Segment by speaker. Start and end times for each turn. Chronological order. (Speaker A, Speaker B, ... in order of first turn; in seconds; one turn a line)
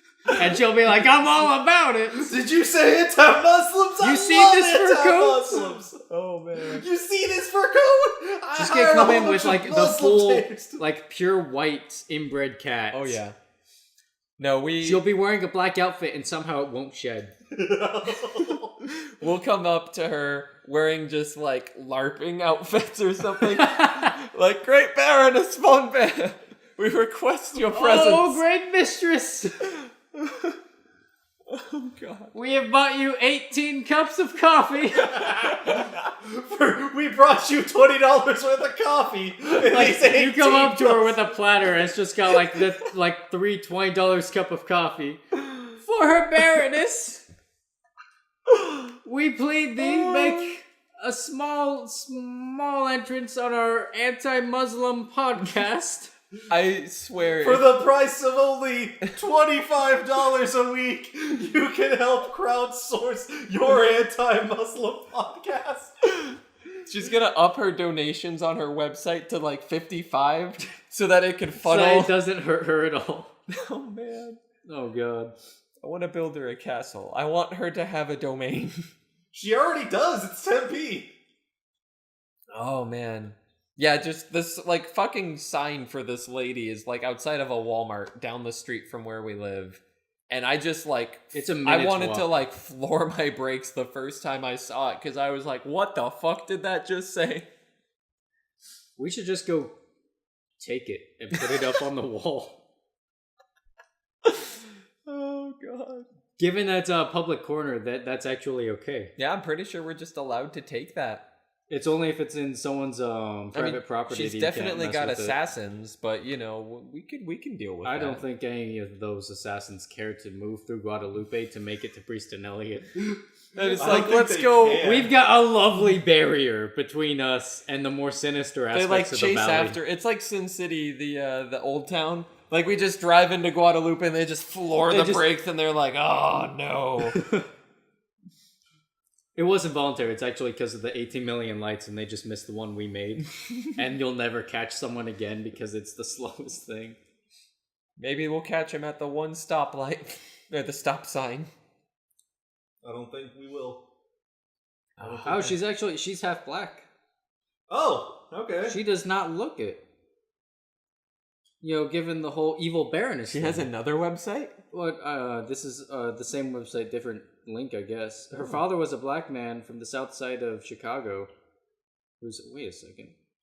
Speaker A: 0.3-2.3
Speaker B: 2.2-6.0
Speaker A: 4.0-5.8
Speaker C: 6.0-6.8
Speaker B: 6.7-10.8
Speaker A: 8.6-13.2
Speaker C: 12.9-13.3
Speaker C: 14.4-15.0
Speaker A: 14.8-17.3
Speaker B: 17.5-18.7
Speaker C: 18.9-28.4
Speaker A: 23.4-24.1
Speaker A: 27.7-29.5
Speaker C: 30.2-30.6
Speaker C: 31.5-32.3
Speaker A: 32.3-35.6
Speaker C: 35.1-35.9
Speaker B: 35.5-41.2
Speaker A: 39.5-47.2
Speaker A: 48.5-56.1
Speaker C: 49.8-50.5
Speaker C: 56.5-57.7
Speaker B: 57.4-65.9
Speaker C: 66.8-72.2
Speaker A: 71.6-73.3
Speaker C: 73.7-74.4
Speaker A: 74.6-75.3
Speaker C: 75.8-78.8
Speaker B: 79.3-81.1
Speaker C: 82.5-97.5
Speaker A: 91.3-92.3
Speaker A: 99.0-99.7
Speaker A: 100.6-102.5
Speaker C: 101.3-101.7
Speaker C: 104.2-106.0
Speaker A: 106.4-109.1
Speaker C: 109.2-111.2
Speaker A: 111.7-115.4
Speaker C: 113.5-118.2
Speaker A: 117.8-123.1
Speaker C: 123.5-124.9
Speaker A: 123.6-124.1
Speaker B: 123.6-125.1
Speaker A: 124.8-129.8
Speaker C: 128.7-137.2
Speaker A: 134.8-135.2
Speaker A: 137.0-137.5
Speaker A: 139.4-147.0
Speaker C: 143.5-143.7
Speaker C: 148.0-151.5
Speaker B: 152.8-153.8
Speaker C: 155.0-155.5
Speaker B: 155.0-155.5
Speaker A: 155.2-156.8
Speaker B: 157.7-158.8
Speaker A: 158.6-159.8
Speaker A: 161.6-163.7
Speaker C: 163.3-164.6
Speaker A: 164.7-171.3
Speaker A: 172.2-173.1